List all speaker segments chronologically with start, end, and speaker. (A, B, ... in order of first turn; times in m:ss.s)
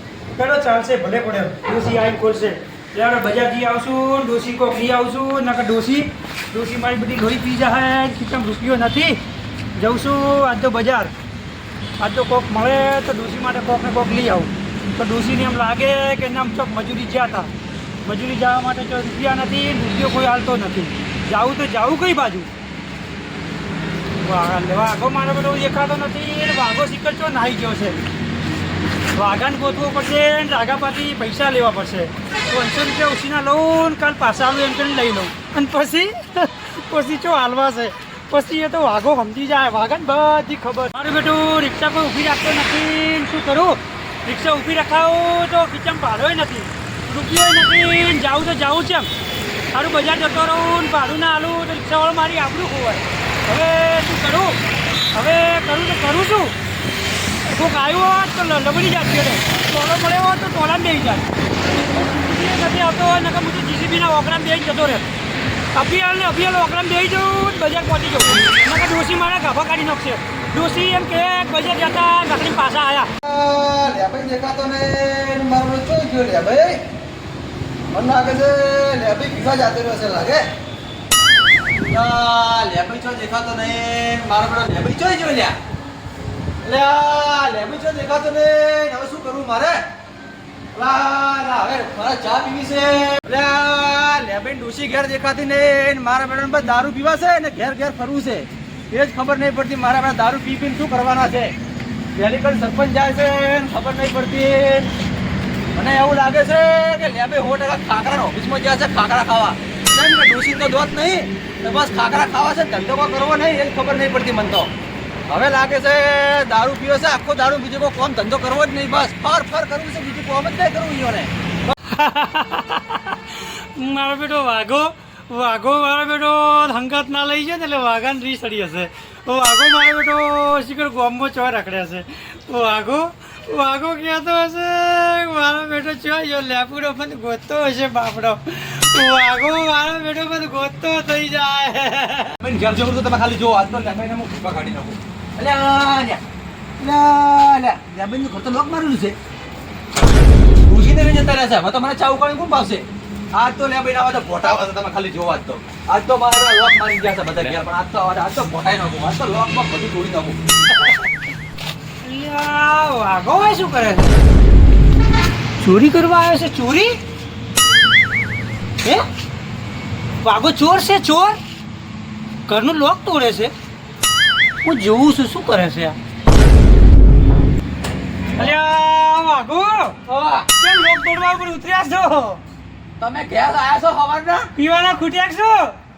0:00.4-0:09.2 A
0:09.8-0:11.1 A
0:12.0-0:17.5 A
0:18.0-0:22.5 A
0:24.2-0:28.0 A
0:29.2-0:49.1 A
0:49.7-0:54.6 A
0:55.1-0:56.5 A
0:57.4-1:05.1 A
1:05.7-1:13.1 A
1:13.2-1:16.8 B
1:17.9-1:20.5 B
1:21.9-1:25.6 B
1:26.6-1:29.8 B
1:30.7-1:41.5 B
1:42.2-1:44.9 B
1:45.8-1:54.7 B
1:55.3-2:01.3 B
2:01.7-2:22.4 A
2:22.4-2:26.2 B
2:26.8-2:29.2 B
2:30.7-2:40.4 B
2:42.0-2:44.2 A
2:45.6-2:47.0 A
2:50.2-2:51.4 A
2:52.5-2:53.5 A
2:54.6-2:56.0 A
2:58.4-3:00.0 A
3:00.1-3:00.5 B
3:00.6-3:02.4 A
3:03.0-3:04.5 B
3:04.6-3:05.8 A